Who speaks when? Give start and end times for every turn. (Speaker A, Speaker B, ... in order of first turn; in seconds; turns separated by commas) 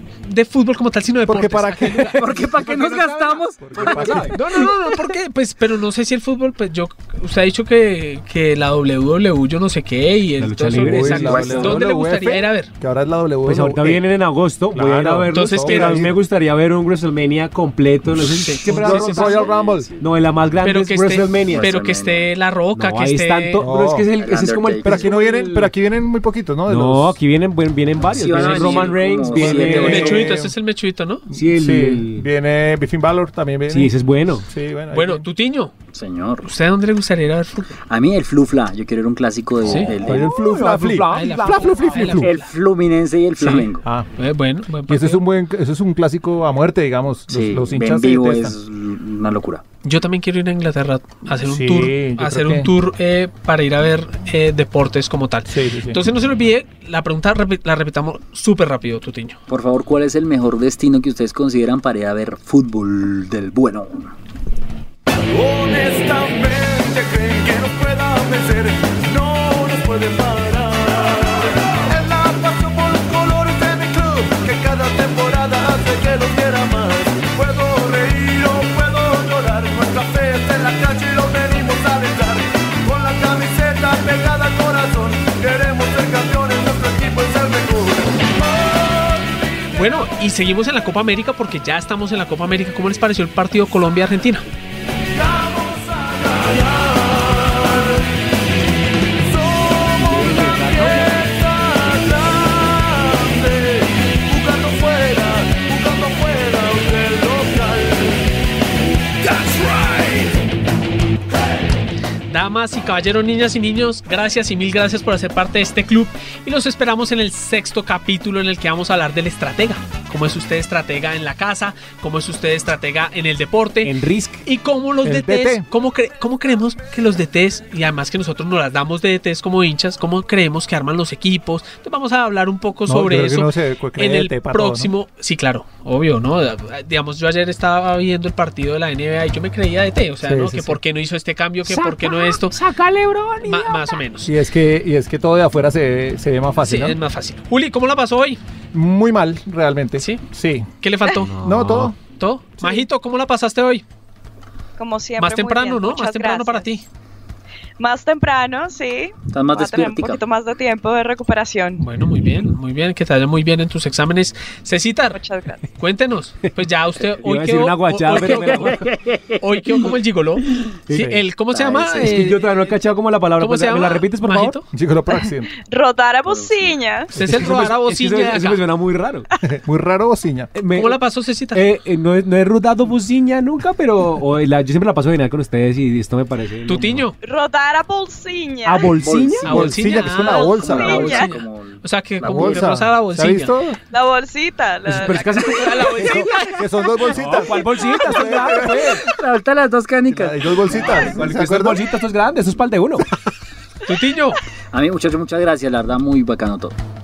Speaker A: 0.2-2.2, Speaker B: 1.3-2.1, Speaker C: 2.2-5.0, Speaker D: 2.3-4.7, Speaker B: 3.6-4.3, Speaker A: 4.3-12.7, Speaker D: 10.4-11.8, Speaker B: 10.8-14.0, Speaker C: 11.3-11.6, Speaker D: 13.5-21.7, Speaker B: 14.7-16.1, Speaker A: 15.3-16.1, Speaker A: 18.4-18.6, Speaker B: 18.7-19.9, Speaker C: 18.7-20.1, Speaker A: 20.6-23.6, Speaker C: 21.4-22.3, Speaker D: 22.8-25.7, Speaker B: 23.6-24.1, Speaker C: 24.1-25.1, Speaker B: 24.8-27.2, Speaker D: 26.7-30.3, Speaker C: 28.0-30.4, Speaker B: 28.4-28.6, Speaker A: 28.4-28.8, Speaker B: 29.2-30.5, Speaker A: 29.7-31.3, Speaker D: 31.3-32.2, Speaker B: 31.3-33.9, Speaker D: 33.7-34.5, Speaker B: 34.5-35.3, Speaker A: 34.9-35.7, Speaker C: 35.9-36.5, Speaker A: 36.4-37.7, Speaker C: 37.9-40.3, Speaker A: 39.6-39.9, Speaker B: 40.0-42.3, Speaker D: 40.0-42.2, Speaker A: 41.1-42.5, Speaker C: 42.2-43.9, Speaker A: 43.4-45.2, Speaker B: 44.9-48.5, Speaker C: 47.3-49.6, Speaker A: 49.8-59.4, Speaker B: 51.4-52.7, Speaker B: 55.5-56.0, Speaker C: 59.5-64.1, Speaker E: 65.2-89.8, Speaker A: 89.7-94.5, Speaker E: 95.1-98.2, Speaker E: 99.2-108.3, Speaker D: 100.0-101.2, Speaker E: 108.9-110.4, Speaker A: 112.3-142.6, Speaker D: 123.8-124.4, Speaker B: 125.0-125.7, Speaker B: 132.9-134.9, Speaker B: 140.2-140.8, Speaker D: 141.7-143.9, Speaker A: 143.4-144.3, Speaker B: 144.2-147.0, Speaker A: 146.6-148.4, Speaker B: 148.7-150.7, Speaker A: 150.0-150.2, Speaker A: 150.8-151.3, Speaker D: 151.2-151.9, Speaker B: 151.4-152.0, Speaker A: 151.9-153.8, Speaker F: 154.8-156.7, Speaker A: 155.2-156.8, Speaker F: 157.8-161.8, Speaker C: 159.3-160.2, Speaker A: 161.8-165.2, Speaker F: 165.1-165.6, Speaker A: 165.8-168.9, Speaker D: 167.2-168.8, Speaker C: 168.2-169.6, Speaker A: 169.4-172.6, Speaker D: 170.9-171.2, Speaker C: 171.5-172.1, Speaker D: 171.9-174.6, Speaker A: 173.4-174.6, Speaker B: 174.7-175.5, Speaker F: 175.7-177.1, Speaker A: 177.1-178.6, Speaker D: 177.2-179.3, Speaker B: 177.2-177.6, Speaker B: 179.4-180.5, Speaker D: 180.6-181.0, Speaker A: 180.7-181.7, Speaker D: 181.5-187.0, Speaker A: 186.7-187.1, Speaker F: 187.2-188.9, Speaker D: 188.7-189.9, Speaker C: 188.9-189.8, Speaker A: 189.4-193.6, Speaker B: 189.5-191.3, Speaker F: 190.0-191.3, Speaker C: 190.5-192.7, Speaker B: 192.2-193.8, Speaker F: 193.9-196.5, Speaker D: 194.8-196.2, Speaker A: 195.6-196.5, Speaker B: 196.0-199.1, Speaker D: 197.1-199.1, Speaker C: 199.0-201.3, Speaker B: 200.1-201.8, Speaker D: 200.8-203.1, Speaker A: 203.9-204.4, Speaker C: 204.7-206.8